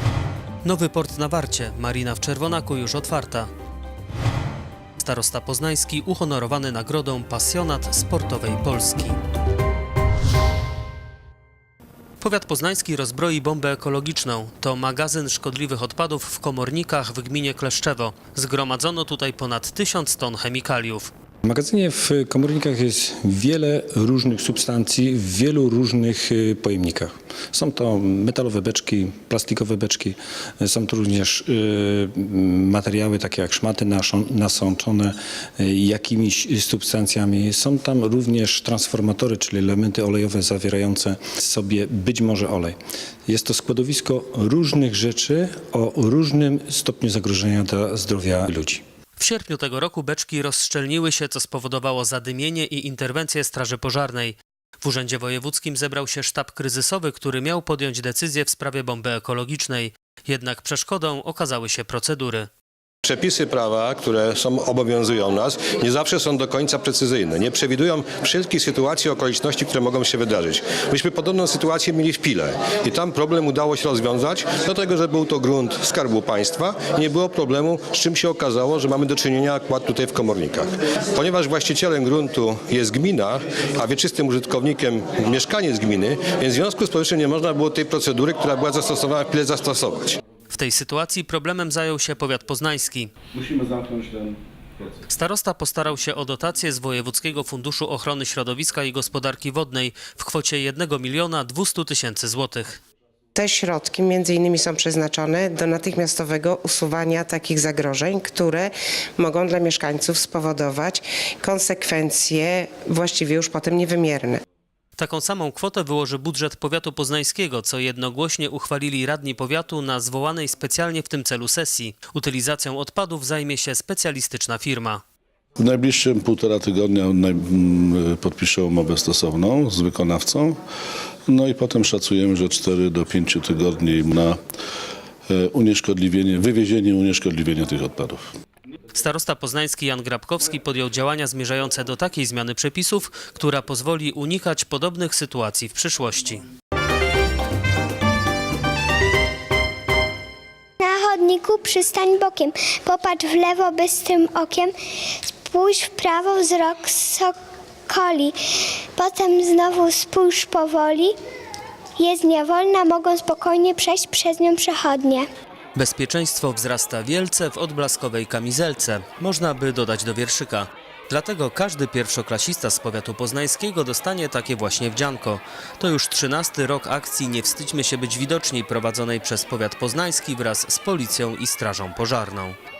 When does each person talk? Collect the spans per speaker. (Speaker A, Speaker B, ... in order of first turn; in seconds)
Speaker A: 0.6-3.5, 5.0-9.2, 12.2-21.1, 49.2-62.5, 90.5-93.1, 95.1-102.8, 115.0-125.0, 138.9-146.4, 165.8-182.6
Speaker B: 21.4-42.8, 43.3-48.8
Speaker C: 63.0-90.2
Speaker D: 93.3-94.9, 125.6-130.6, 131.3-134.4, 135.3-138.2
Speaker E: 103.4-114.4
Speaker F: 150.8-154.7, 155.5-157.3, 157.9-158.4, 158.9-161.1, 162.0-165.3